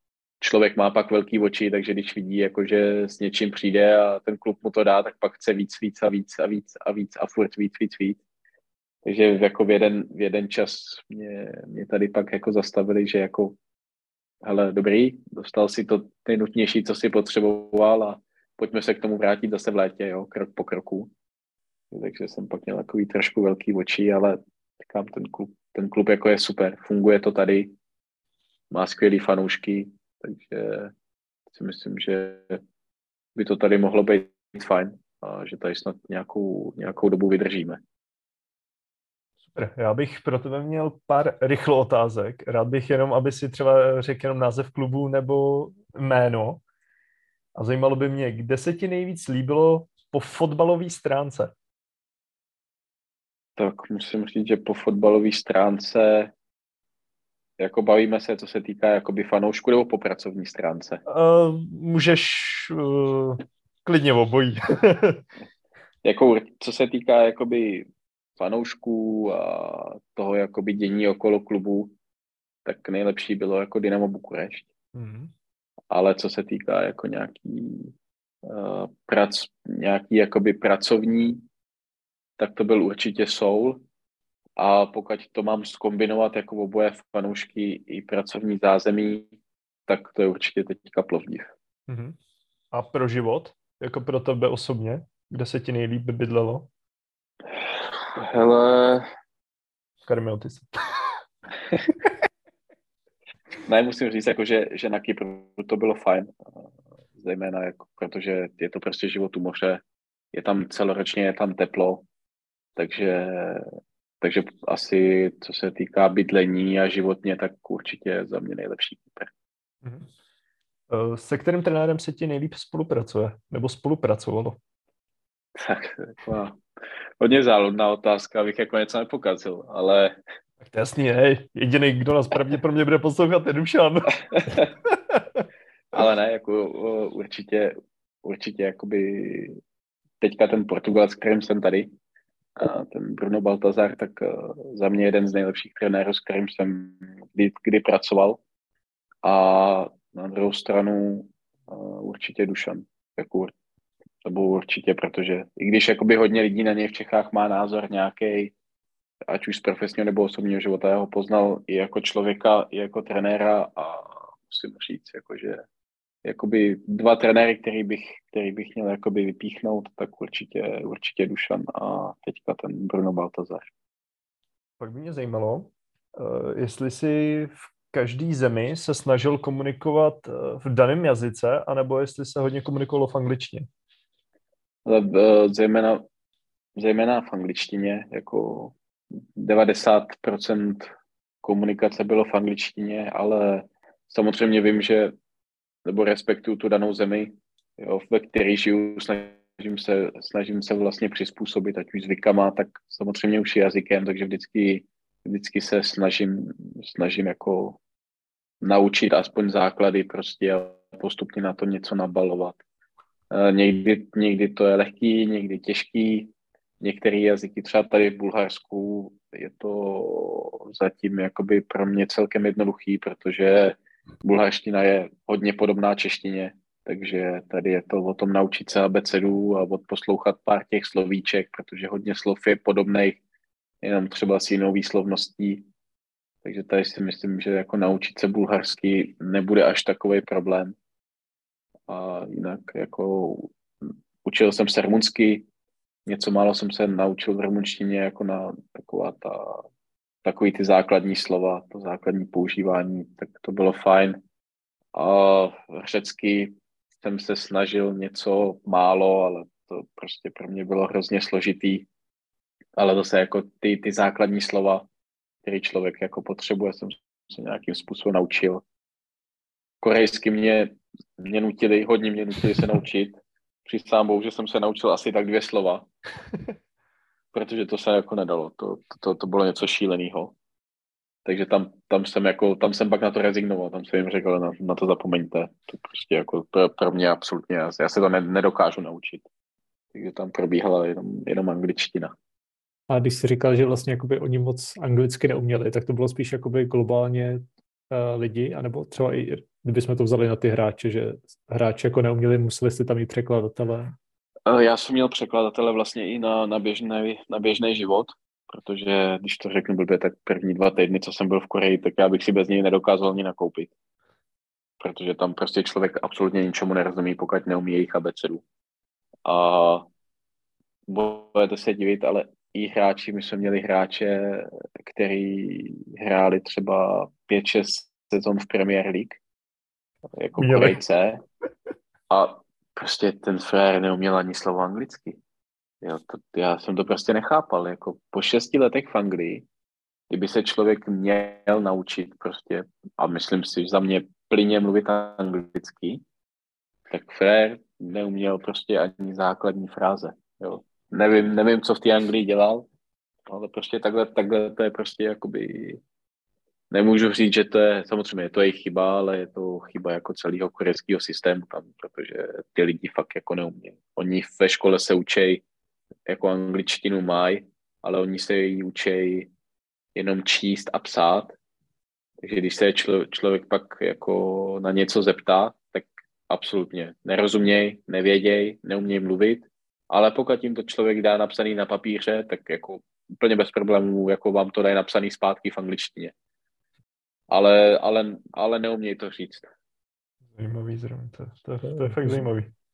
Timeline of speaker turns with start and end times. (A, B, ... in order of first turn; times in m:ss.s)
0:00.4-0:08.2 A
0:09.0-0:13.6 A
0:14.4-0:21.1 A
0:21.9-0:27.7 A
0:28.7-0:30.9 A
0:31.5-0:32.6 A
0:33.3-0:37.8 A
0:39.5-0:46.6 B
0:47.6-0:51.5 B
0:53.6-0:56.3 A
0:57.6-1:01.0 A
1:01.1-1:05.2 B
1:06.0-1:11.9 A
1:12.6-1:14.7 A
1:14.9-1:15.3 B
1:15.9-1:17.9 A
1:18.4-1:21.4 A
1:22.4-1:23.8 A
1:24.6-1:29.3 A
1:29.9-1:31.5 A
1:31.9-1:32.2 B
1:32.7-1:36.7 B
1:37.5-1:39.1 A
1:40.0-1:40.7 B
1:43.6-1:46.3 A
1:47.2-1:49.8 A
1:50.3-1:52.0 A
1:52.8-1:59.3 A
1:59.8-2:00.1 B
2:00.9-2:04.6 B
2:05.6-2:06.6 A
2:07.2-2:10.2 A
2:10.6-2:15.4 B
2:14.2-2:14.7 A
2:15.9-2:19.6 A
2:20.2-2:21.9 A
2:22.6-2:28.4 A
2:29.2-2:33.5 A
2:34.2-2:38.5 A
2:39.3-2:45.6 A
2:46.2-2:53.7 A
2:54.8-3:03.7 B
3:04.8-3:06.0 A
3:06.8-3:08.7 A
3:09.4-3:10.9 A
3:11.4-3:15.1 A
3:15.8-3:27.8 A
3:28.6-3:32.6 A
3:33.3-3:53.2 A
3:53.8-3:55.6 A
3:56.4-4:00.7 A
4:01.9-4:03.5 A
4:04.2-4:05.5 A
4:06.0-4:09.6 A
4:10.2-4:14.2 A
4:14.9-4:21.9 A
4:22.8-4:24.9 A
4:25.4-4:28.6 A
4:29.8-4:35.9 A
4:37.3-4:40.4 A
4:41.2-4:49.2 A
4:49.9-4:52.1 A
4:52.9-5:03.9 C
5:04.5-5:13.7 A
5:14.8-5:18.4 A
5:19.2-5:19.9 A
5:20.9-5:29.2 A
5:30.2-5:31.2 A
5:30.4-5:30.8 B
5:32.1-5:35.2 A
5:35.8-5:39.4 A
5:40.1-5:46.0 A
5:46.9-5:52.7 A
5:53.3-5:55.8 A
5:56.7-6:05.4 A
6:06.1-6:09.3 A
6:09.9-6:11.3 A
6:12.2-6:26.1 A
6:27.3-6:29.5 A
6:30.3-6:32.5 B